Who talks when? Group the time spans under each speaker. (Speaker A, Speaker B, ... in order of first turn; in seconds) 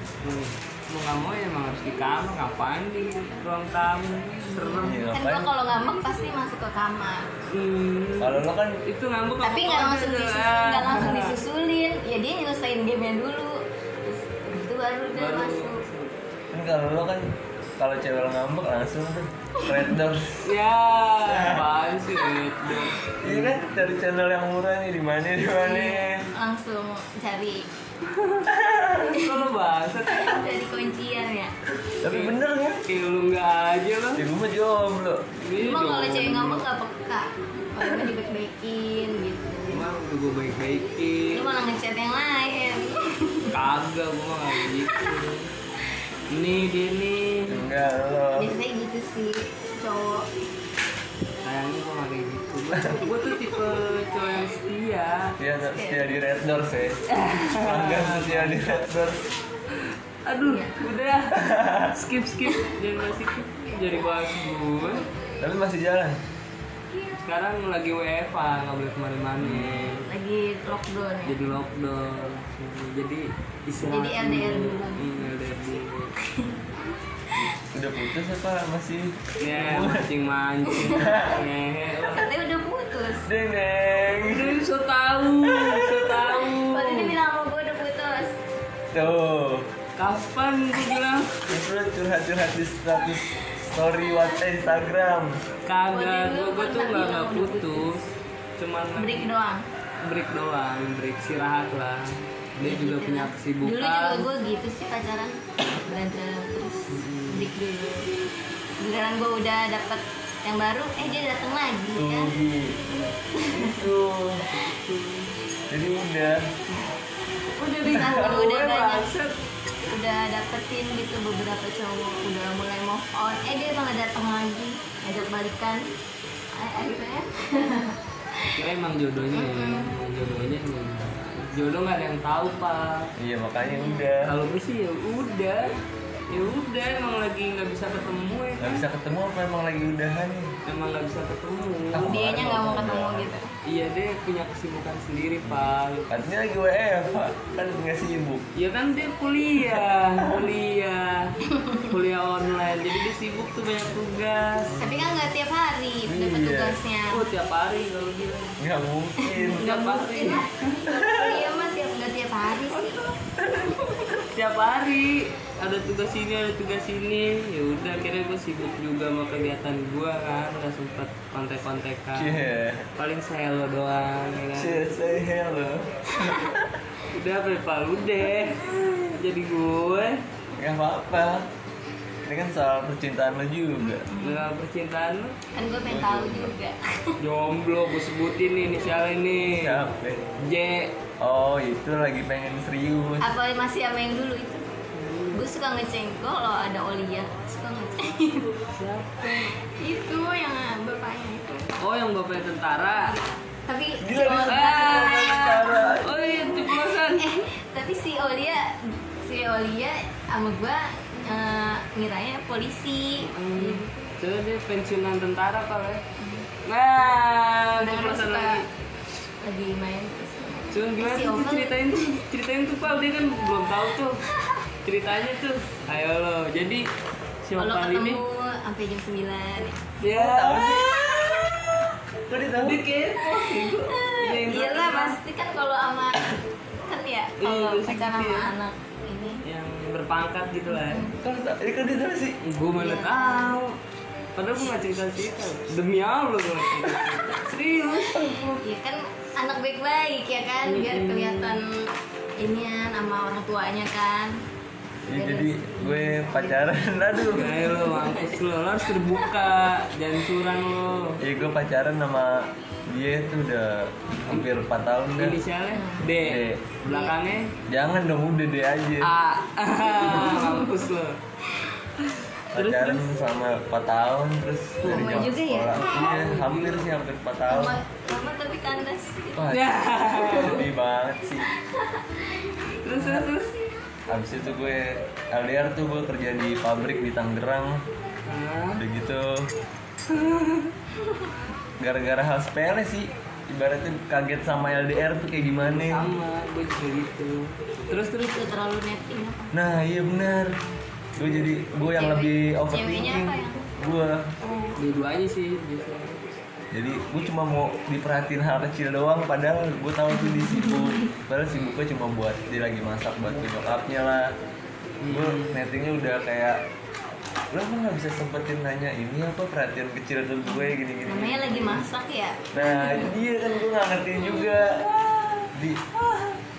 Speaker A: 0.2-5.0, 7.5-11.4, 15.1-16.2, 20.4-23.9, 28.0-30.5, 32.0-34.2, 35.4-36.6, 39.7-41.5, 43.5-45.5, 46.3-47.7, 51.4-55.4, 57.1-58.8, 59.7-65.1, 67.2-70.1, 71.3-76.2, 79.4-82.3, 84.2-87.2, 90.0-91.4, 95.7-98.0, 98.6-99.3, 100.0-104.3, 106.9-107.5, 114.5-115.3, 117.6-119.3, 128.6-133.1, 134.2-135.7, 136.3-138.8, 140.7-142.3, 143.7-146.1, 148.6-154.8, 157.1-158.6, 159.4-160.9, 164.2-172.4, 173.0-174.9, 177.0-180.2, 184.2-185.4, 187.2-189.8, 190.4-190.9, 194.9-195.5, 198.7-199.5, 201.8-203.2, 204.2-207.3, 213.2-216.0, 216.7-218.7, 220.7-224.2, 224.8-226.9, 227.4-228.2, 230.0-231.5, 232.6-235.2, 237.4-238.5, 239.4-241.1, 242.4-243.8, 244.4-248.6, 250.7-251.6, 257.3-261.2, 265.1-267.5, 269.0-271.2, 272.0-273.1, 274.9-276.9, 279.5-280.7, 282.8-283.6, 288.3-288.9, 290.1-290.7, 295.5-298.4, 304.8-306.2, 315.0-315.6, 324.4-326.4
Speaker B: 4.5-7.3, 9.4-15.8, 25.6-27.7, 29.1-29.4, 30.1-31.5, 35.6-39.9, 41.3-43.6, 44.8-45.0, 48.4-50.3, 55.6-56.1, 60.4-60.8, 69.6-71.5, 73.9-75.3, 76.2-76.6, 80.7-81.2, 82.1-83.3, 86.3-88.4, 95.9-98.0, 99.0-99.6, 102.6-108.1, 108.8-112.3, 113.3-113.8, 117.6-119.1, 119.9-125.9, 126.5-128.6, 129.3-129.9, 133.6-134.1, 142.0-143.5, 151.5-151.9, 154.8-157.2, 159.2-163.1, 184.1-184.5, 185.5-187.2, 193.2-194.7, 195.3-198.6, 199.3-201.7, 202.9-205.7, 207.1-213.9, 216.2-216.5, 217.8-218.6, 219.4-222.2, 227.6-229.9, 233.2-239.4, 240.7-241.2, 242.8-243.6, 246.9-254.4, 255.1-258.4, 265.7-266.1, 266.9-267.1, 269.9-270.8, 274.8-275.9, 277.5-279.5, 280.2-280.5, 281.5-283.2, 298.2-299.6, 301.9-303.7, 304.4-304.8, 310.1-311.1, 320.5-323.1
Speaker C: 4.8-5.5, 8.2-8.8, 16.5-20.5, 21.2-21.7, 23.2-26.3, 28.5-29.1, 32.0-32.8, 34.2-35.2, 47.5-48.5, 55.4-57.0, 57.6-59.3, 61.3-62.0, 65.4-66.2, 69.4-69.8, 77.4-80.1, 80.9-81.4, 83.3-84.6, 85.4-86.2, 88.9-89.7, 91.5-95.4, 112.0-113.0, 113.5-114.5, 115.7-116.5, 133.2-134.4, 138.6-140.6, 141.9-143.3, 145.5-148.5, 149.7-150.5, 154.7-155.3, 156.1-156.8, 158.6-159.7, 160.9-161.4, 163.4-164.0, 172.2-172.9, 174.6-176.8, 180.6-181.5, 182.2-184.1, 185.9-186.5, 189.5-190.3, 191.2-193.3, 204.0-206.2, 230.0-230.9, 232.3-232.8, 241.2-242.4, 255.1-257.6, 261.2-265.4, 266.2-266.6, 267.7-269.1, 272.5-277.8, 279.4-281.5, 284.1-287.8, 288.8-289.5, 291.8-296.1, 299.5-300.5, 301.2-304.4, 306.7-314.4, 315.1-316.6, 317.5-321.8, 322.5-324.8, 325.5-325.9